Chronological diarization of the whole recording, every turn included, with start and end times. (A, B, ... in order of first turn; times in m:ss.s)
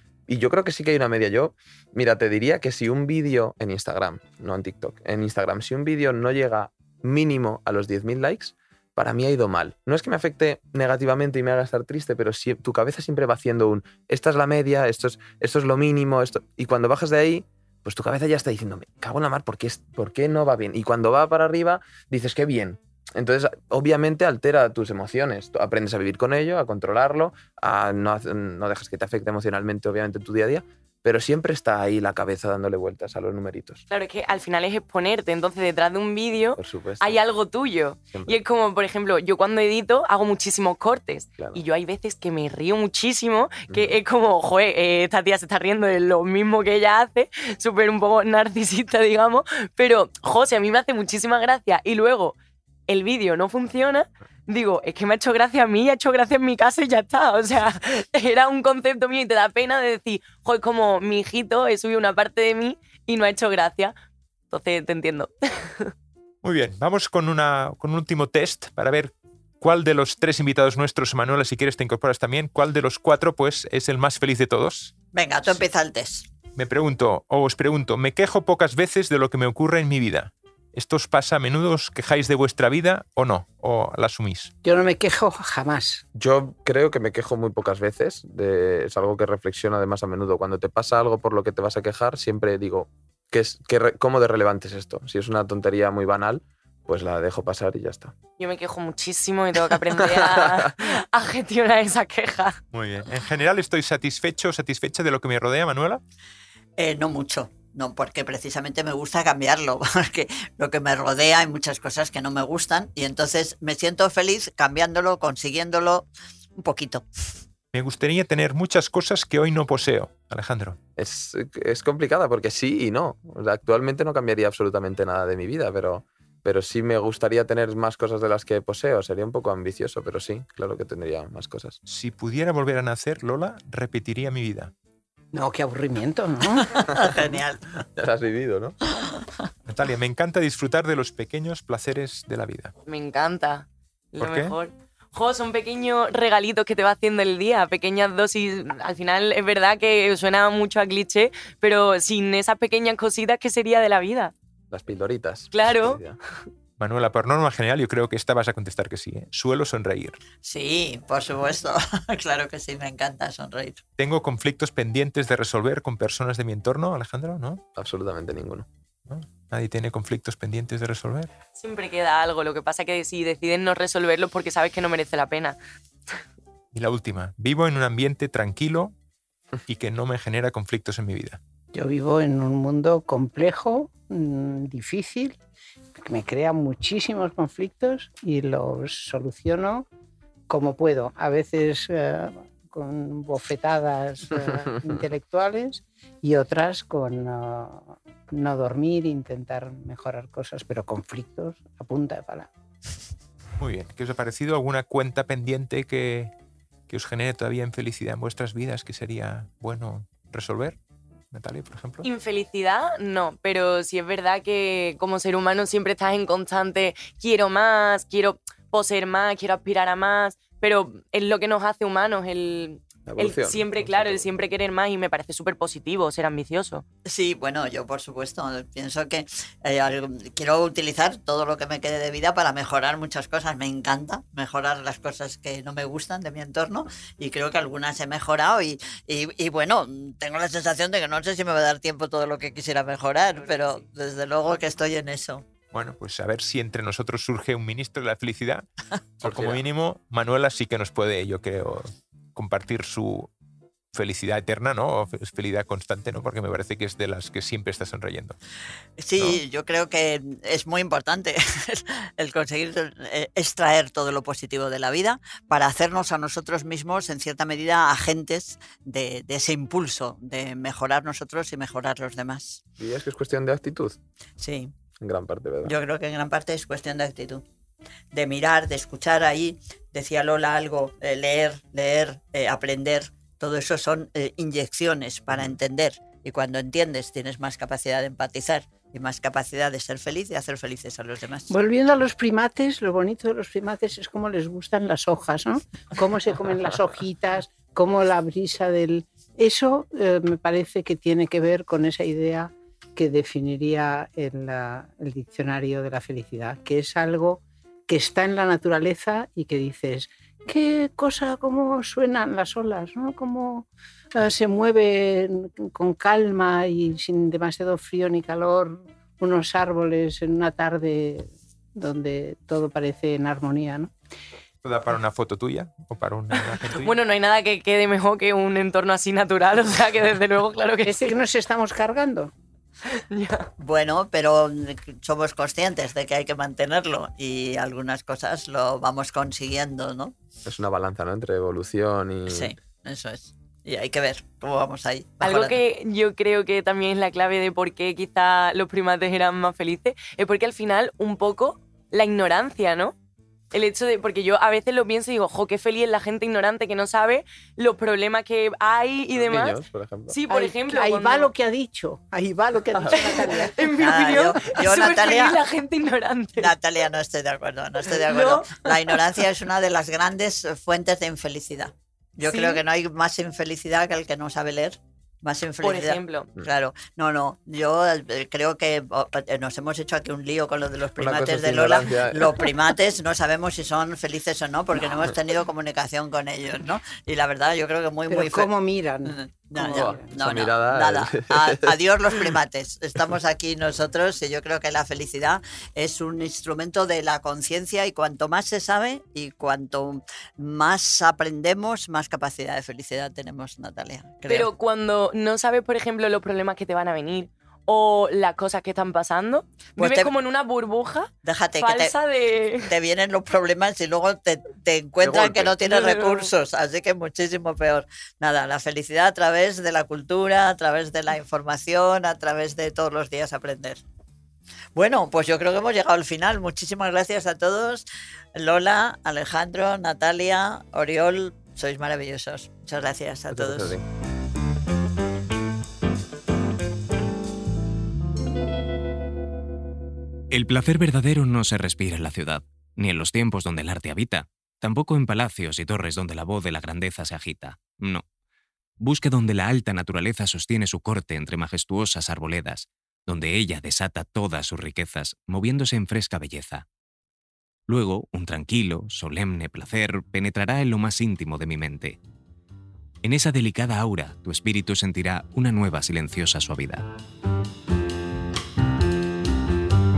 0:00.3-0:33.8 A
0:33.9-0:52.4 B
0:36.6-0:37.2 A
0:38.1-0:38.4 A
0:43.7-0:44.0 A
0:52.9-1:03.9 B
1:04.5-1:05.9 B
1:06.4-1:14.9 C
1:15.1-1:16.3 D
1:16.5-1:24.5 C
1:24.6-1:26.0 E
1:26.1-1:38.1 A
1:38.4-1:42.6 B
1:40.0-1:40.7 A
1:42.7-1:46.0 C
1:46.8-1:57.0 D
1:57.7-2:00.8 C
2:01.0-2:11.8 A
2:11.8-2:14.7 C
2:15.3-2:16.7 E
2:16.6-2:17.8 D
2:18.0-2:18.8 A
2:18.9-2:19.3 D
2:19.7-2:22.7 C
2:22.8-2:34.3 B
2:24.2-2:24.5 C
2:34.7-2:36.2 A
2:35.5-2:36.0 B
2:36.8-2:40.2 C
2:40.4-2:43.8 D
2:44.0-2:47.6 C
2:47.7-2:48.7 A
2:49.1-2:51.3 C
2:51.6-2:55.6 B
2:56.7-2:58.9 C
2:59.7-3:01.4 C
3:01.7-3:05.4 E
3:06.0-3:09.8 E
3:10.5-3:22.5 E
3:23.6-3:26.3 C
3:26.9-3:30.8 C
3:31.3-3:32.0 C
3:32.0-3:46.8 B
3:43.0-3:44.3 A
3:47.1-4:05.4 D
4:05.7-4:08.6 C
4:09.2-4:13.3 C
4:09.2-4:09.6 A
4:13.9-4:18.4 C
4:19.0-4:32.6 D
4:32.8-4:34.0 A
4:34.4-4:34.7 D
4:35.0-4:35.8 A
4:35.6-4:37.4 D
4:38.1-4:51.5 D
4:45.3-4:45.6 A
4:51.5-5:23.9 E
5:24.6-5:26.9 C
5:26.5-5:31.1 B
5:30.8-5:32.3 E
5:32.9-5:33.5 B
5:33.6-5:40.1 D
5:40.4-5:42.5 A
5:42.3-5:45.6 D
5:45.2-5:52.9 B
5:53.5-6:01.3 B
5:59.1-6:00.2 A
6:00.3-6:03.6 E
6:02.7-6:03.2 A
6:03.2-6:06.5 B
6:03.7-6:05.4 D
6:06.4-6:28.5 D
6:07.9-6:09.0 B
6:12.2-6:12.6 B
6:15.6-6:16.3 B
6:21.0-6:22.6 A
6:28.1-6:30.1 E
6:29.0-6:44.5 D
6:29.6-6:31.8 A
6:44.3-6:52.7 B
6:49.8-6:50.1 D
6:51.2-6:51.9 D
6:52.7-7:03.8 D
6:55.0-6:55.5 A
6:55.5-6:56.3 B
7:04.8-7:13.8 D
7:13.3-7:13.8 A
7:20.3-7:28.0 F
7:28.8-7:36.6 F
7:37.7-7:42.0 F
7:43.0-7:46.8 F